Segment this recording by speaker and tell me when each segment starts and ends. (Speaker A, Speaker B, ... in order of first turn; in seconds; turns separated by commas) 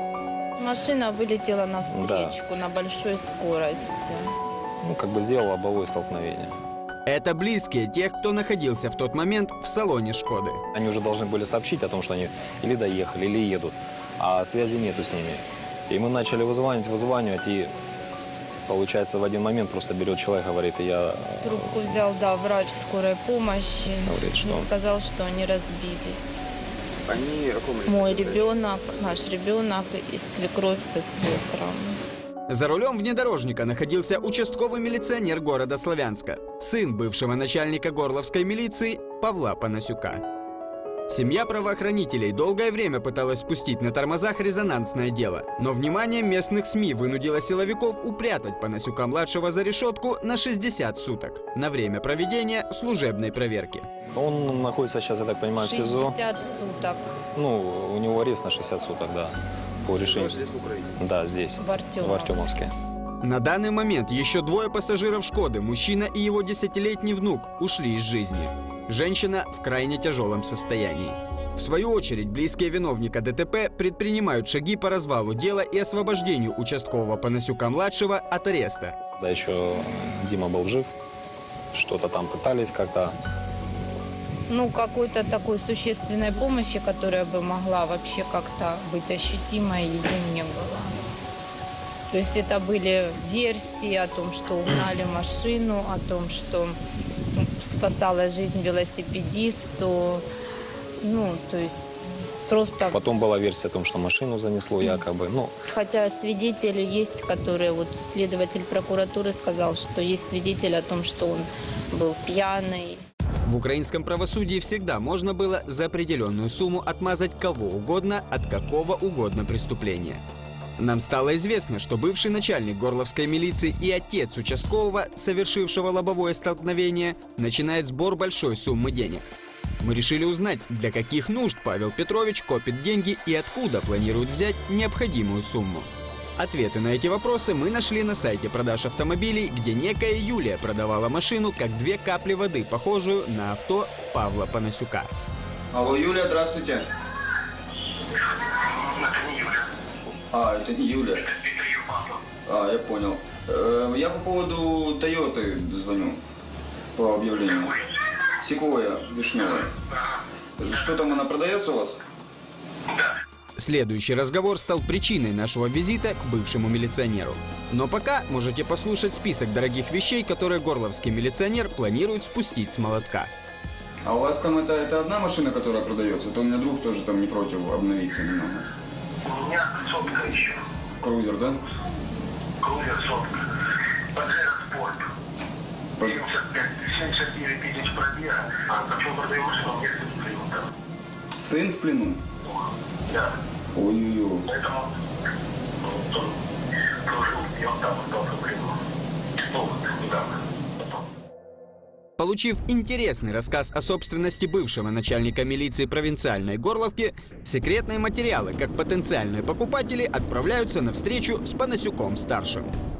Speaker A: 0.6-4.3, Speaker B: 1.9-2.4, Speaker B: 4.8-6.5, Speaker C: 7.1-10.6, Speaker B: 10.7-17.7, Speaker B: 18.7-22.0, Speaker A: 21.4-26.4, Speaker B: 24.1-24.7, Speaker D: 27.1-28.5, Speaker A: 27.9-32.0, Speaker C: 32.5-40.2, Speaker C: 41.1-53.9, Speaker B: 54.1-56.2, Speaker A: 55.5-57.1, Speaker B: 57.4-60.4, Speaker D: 60.0-60.9, Speaker C: 60.2-60.5, Speaker B: 61.0-62.7, Speaker A: 61.6-62.5, Speaker C: 63.2-79.0, Speaker B: 79.2-80.9, Speaker B: 81.7-83.2, Speaker A: 84.5-90.9, Speaker A: 92.1-96.8, Speaker A: 97.4-100.2, Speaker A: 101.0-103.1, Speaker B: 102.9-105.5, Speaker A: 105.7-113.0, Speaker C: 113.5-120.2, Speaker C: 120.8-145.1, Speaker D: 145.7-146.9, Speaker D: 150.3-151.3, Speaker D: 152.5-156.2, Speaker D: 157.0-157.7, Speaker D: 158.4-159.7, Speaker D: 160.6-162.0, Speaker C: 163.6-173.3, Speaker D: 174.1-178.7, Speaker E: 179.3-180.5, Speaker D: 181.0-181.6, Speaker E: 182.7-183.2, Speaker E: 184.2-185.0, Speaker E: 186.0-190.6, Speaker D: 191.4-192.2, Speaker D: 193.7-194.5, Speaker E: 197.1-198.7, Speaker E: 199.6-200.3, Speaker C: 202.2-212.7